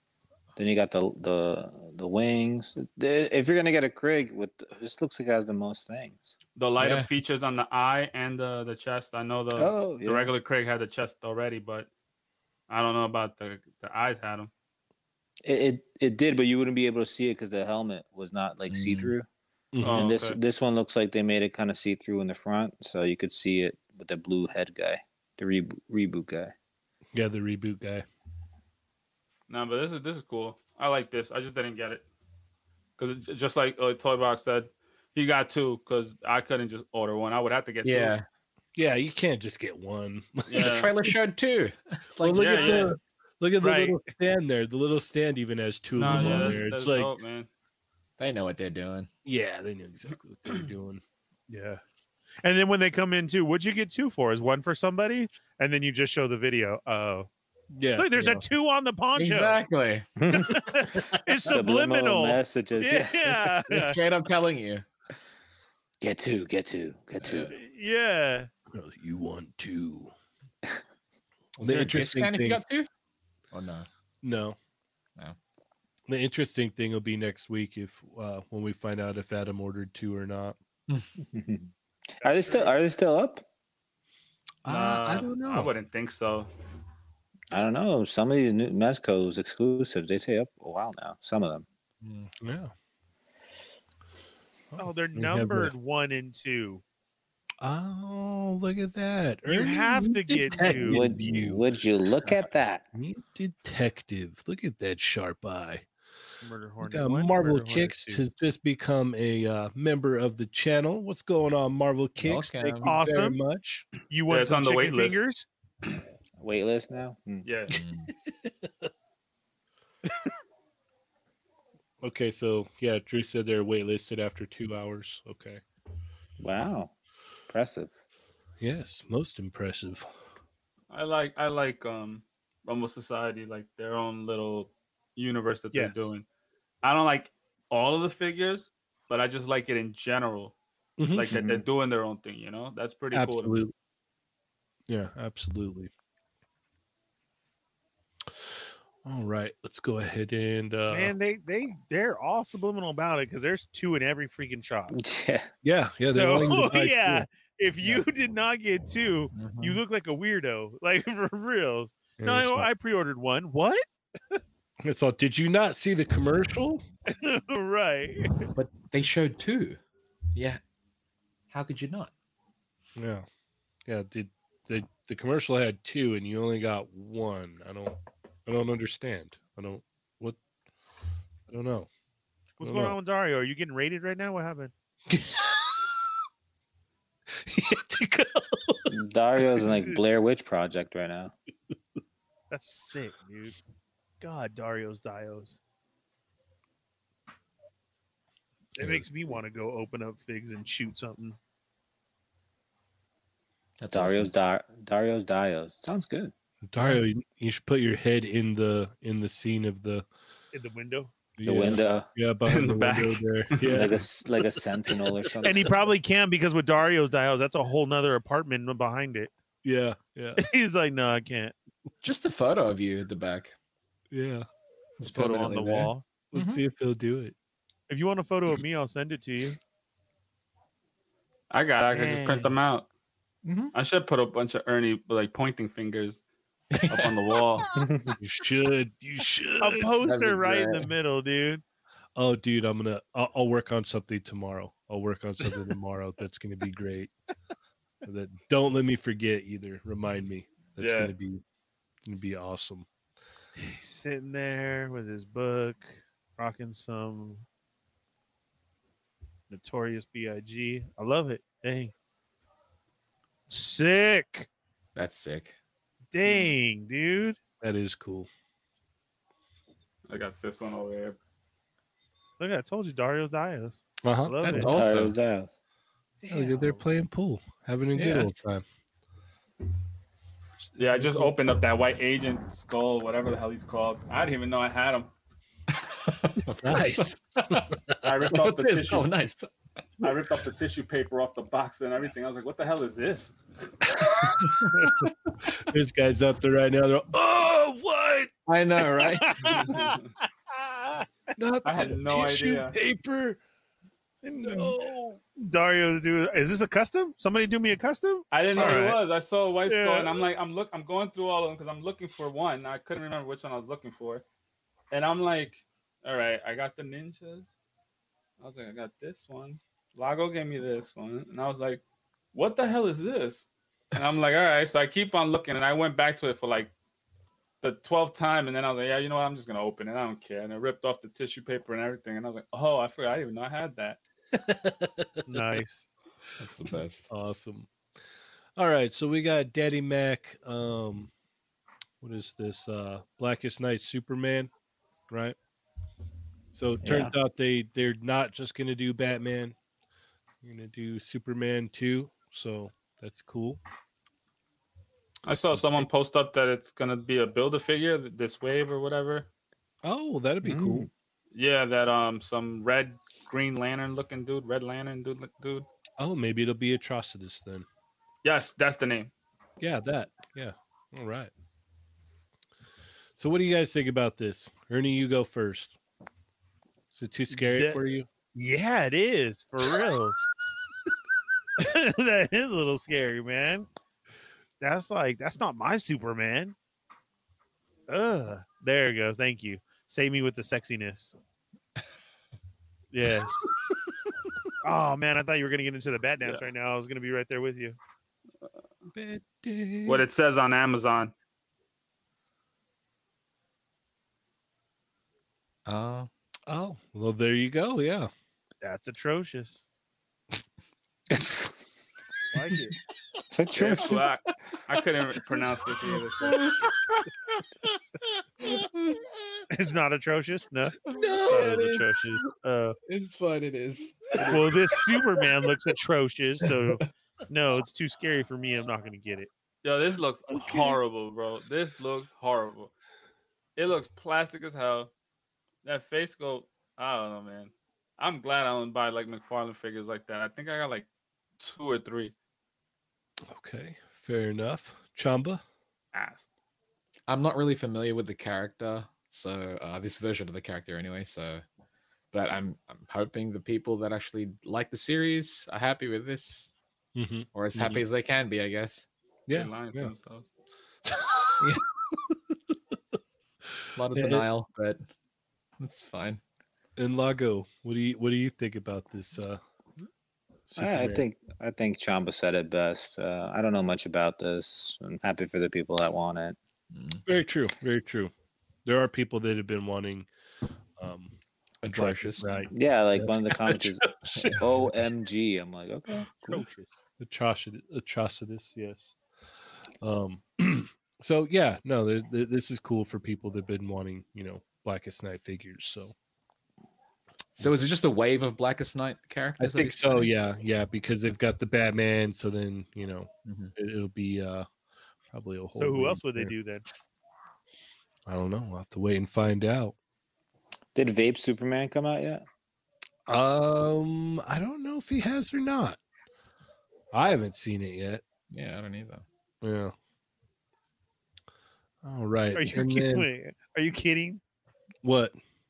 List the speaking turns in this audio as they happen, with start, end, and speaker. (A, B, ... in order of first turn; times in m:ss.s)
0:00.6-0:06.3 A
0:06.6-0:11.9 B
0:06.8-0:07.1 C
0:09.5-0:10.3 A
0:12.7-0:14.5 B
0:15.4-0:19.2 A
0:18.7-0:19.1 C
0:19.7-0:20.0 D
0:19.8-0:20.4 B
0:19.8-0:26.5 A
0:27.1-0:28.0 D
0:29.5-0:32.0 B
0:33.0-0:38.1 B
0:37.8-0:38.2 C
0:38.8-0:41.1 D
0:40.5-0:40.9 B
0:40.6-0:42.9 C
0:42.2-0:47.1 D
0:42.3-0:42.9 B
0:43.6-0:44.0 E
0:46.0-0:47.5 B
0:46.0-0:46.6 C
0:48.2-0:49.1 C
0:49.2-0:51.0 D
0:51.5-0:51.8 E
0:52.4-0:57.3 E
0:57.7-0:58.4 D
0:58.0-0:59.6 E
0:59.1-1:00.1 C
1:00.2-1:00.6 A
1:00.3-1:04.0 E
1:01.4-1:03.4 A
1:03.7-1:04.8 C
1:06.0-1:07.5 A
1:07.2-1:07.5 C
1:07.5-1:08.5 E
1:08.7-1:10.1 D
1:11.6-1:12.6 D
1:11.6-1:12.9 C
1:13.5-1:13.9 C
1:14.2-1:14.6 D
1:16.1-1:20.6 D
1:21.2-1:21.7 A
1:22.2-1:22.7 E
1:22.2-1:23.4 A
1:24.6-1:25.7 D
1:24.7-1:26.5 B
1:27.5-1:31.6 A
1:32.0-1:32.3 C
1:32.4-1:32.7 D
1:34.7-1:35.7 D
1:34.8-1:36.8 E
1:37.6-1:41.6 D
1:39.5-1:41.0 E
1:40.6-1:42.8 A
1:42.9-1:45.8 D
1:46.4-1:48.2 E
1:46.8-1:53.9 D
1:52.2-1:52.9 C
1:52.8-1:53.4 E
1:54.1-1:55.5 E
1:54.3-1:55.2 B
1:56.4-1:57.5 A
1:57.4-1:57.8 B
1:57.7-1:58.1 C
1:57.7-1:58.9 D
2:02.0-2:05.6 D
2:06.4-2:06.9 A
2:07.5-2:07.9 A
2:08.6-2:10.1 D
2:10.9-2:16.2 B
2:15.7-2:16.1 E
2:16.8-2:20.5 B
2:21.0-2:21.4 D
2:21.1-2:23.6 B
2:21.3-2:21.6 A
2:23.1-2:23.7 D
2:24.9-2:25.9 D
2:29.0-2:31.1 D
2:30.9-2:34.9 E
2:34.9-2:35.5 A
2:35.6-2:37.2 D
2:36.1-2:44.4 E
2:39.3-2:39.8 C
2:42.2-2:42.7 D
2:44.8-2:46.8 D
2:47.1-2:48.4 E
2:48.5-2:49.8 C
2:50.3-2:50.6 C
2:51.5-2:52.1 C
2:53.0-2:53.2 D
2:53.8-3:00.4 D
3:01.5-3:01.9 D
3:02.6-3:04.7 E
3:02.6-3:03.0 D
3:05.1-3:05.9 D
3:07.3-3:08.9 D
3:08.9-3:11.3 A
3:09.7-3:10.0 E
3:12.5-3:13.5 E
3:14.2-3:15.6 E
3:18.8-3:21.4 E
3:18.8-3:19.1 D
3:23.8-3:24.3 C
3:23.9-3:26.3 A
3:26.6-3:30.0 D
3:30.5-3:31.1 E
3:31.4-3:34.0 D
3:31.4-3:32.1 A
3:32.4-3:33.9 B
3:33.6-3:35.7 A
3:35.4-3:39.3 E
3:39.6-3:40.4 D
3:40.4-3:41.5 E
3:42.0-3:43.5 C
3:44.1-3:44.5 D
3:45.0-3:46.6 C
3:45.0-3:46.0 E
3:46.3-3:47.3 D
3:47.9-3:49.6 E
3:51.5-3:52.9 B
3:51.9-3:52.5 E
3:53.4-3:53.7 C
3:53.7-3:56.2 B
3:56.7-3:57.6 C
3:56.9-3:57.6 B
3:57.7-3:58.1 A
3:58.1-3:59.9 D
3:59.6-4:01.6 E
4:00.0-4:00.9 C
4:02.1-4:07.1 D
4:08.0-4:11.4 D
4:10.8-4:11.1 B
4:12.0-4:12.9 D
4:13.6-4:17.4 E
4:19.5-4:21.9 E
4:23.5-4:24.5 E
4:24.9-4:25.6 C
4:26.1-4:27.4 E
4:27.6-4:28.3 D
4:30.1-4:31.2 B
4:32.4-4:34.8 E
4:34.0-4:34.6 D
4:34.4-4:35.2 C
4:34.6-4:35.5 A
4:36.2-4:36.9 E
4:36.3-4:38.6 D
4:37.9-4:38.4 C
4:40.7-4:41.3 D
4:40.8-4:45.1 B
4:45.9-4:47.6 C
4:46.6-4:48.0 D
4:48.0-4:49.1 B
4:48.3-4:49.5 C
4:50.0-4:53.3 B
4:54.0-4:58.3 D
4:54.2-4:55.1 C
4:58.5-4:59.8 C
4:59.0-5:01.1 E
5:01.4-5:03.4 D
5:01.6-5:02.7 B
5:04.2-5:04.8 E
5:04.4-5:05.2 D
5:05.4-5:09.0 E
5:08.3-5:14.2 B
5:09.7-5:10.2 E
5:14.9-5:17.5 B
5:18.4-5:21.8 B
5:22.3-5:26.7 B
5:27.6-5:34.0 B
5:34.3-5:35.5 D
5:35.3-5:35.9 E
5:36.4-5:37.1 C
5:37.1-5:37.7 D
5:38.6-5:41.1 D
5:42.0-5:44.5 D
5:45.1-5:45.4 D
5:46.5-5:49.5 D
5:46.8-5:47.1 A
5:50.4-5:53.6 D
5:55.2-5:59.3 B
5:59.8-6:00.9 D
6:00.4-6:00.9 A
6:01.3-6:05.6 B
6:06.0-6:07.6 D
6:08.2-6:09.1 B
6:09.6-6:11.3 D
6:13.2-6:15.7 D
6:16.9-6:18.1 D
6:17.3-6:17.8 E
6:18.3-6:20.3 E
6:21.6-6:23.7 E
6:24.6-6:26.5 E
6:27.9-6:31.1 E
6:32.9-6:33.5 E
6:34.6-6:37.8 E
6:38.9-6:40.0 D
6:39.8-6:41.1 B
6:45.6-6:46.1 C
6:46.5-6:48.1 D
6:48.6-6:49.6 E
6:51.1-6:51.6 A
6:52.3-6:52.7 E
6:53.3-6:54.1 A
6:53.5-6:56.6 B
6:56.2-6:57.0 C
6:58.4-6:59.1 C
6:59.5-7:02.8 E
7:00.8-7:02.2 C
7:01.0-7:01.5 D
7:02.9-7:05.2 C
7:04.2-7:09.3 E
7:09.6-7:12.7 B
7:10.3-7:10.8 D
7:13.6-7:14.9 B
7:15.6-7:20.9 B
7:21.4-7:22.1 B
7:23.2-7:25.4 D
7:25.9-7:26.2 B
7:27.1-7:31.4 C
7:32.1-7:36.5 C
7:37.0-7:37.8 D
7:37.3-7:38.9 C
7:39.3-7:39.9 D
7:39.3-7:40.3 B
7:40.8-7:41.5 D
7:43.6-7:44.2 D
7:43.7-7:44.8 C
7:45.6-7:46.2 C
7:46.8-7:49.4 D
7:50.5-7:51.0 D
7:50.6-7:56.4 A
7:56.7-7:57.0 C
7:57.0-7:58.1 D
7:58.6-8:00.1 D
8:00.8-8:01.2 D
8:01.6-8:02.5 C
8:01.7-8:04.4 D
8:02.5-8:06.4 A
8:04.1-8:04.4 C
8:06.2-8:08.9 D
8:09.8-8:15.9 D
8:17.4-8:20.1 C
8:19.4-8:24.5 D
8:23.2-8:23.5 C
8:25.1-8:26.3 D
8:25.6-8:26.6 E
8:28.0-8:29.7 D
8:30.7-8:32.2 A
8:33.1-8:35.8 D
8:36.9-8:38.0 D
8:38.3-8:39.0 C
8:39.4-8:39.7 D
8:41.8-8:43.1 D
8:42.3-8:44.2 E
8:44.8-8:45.2 D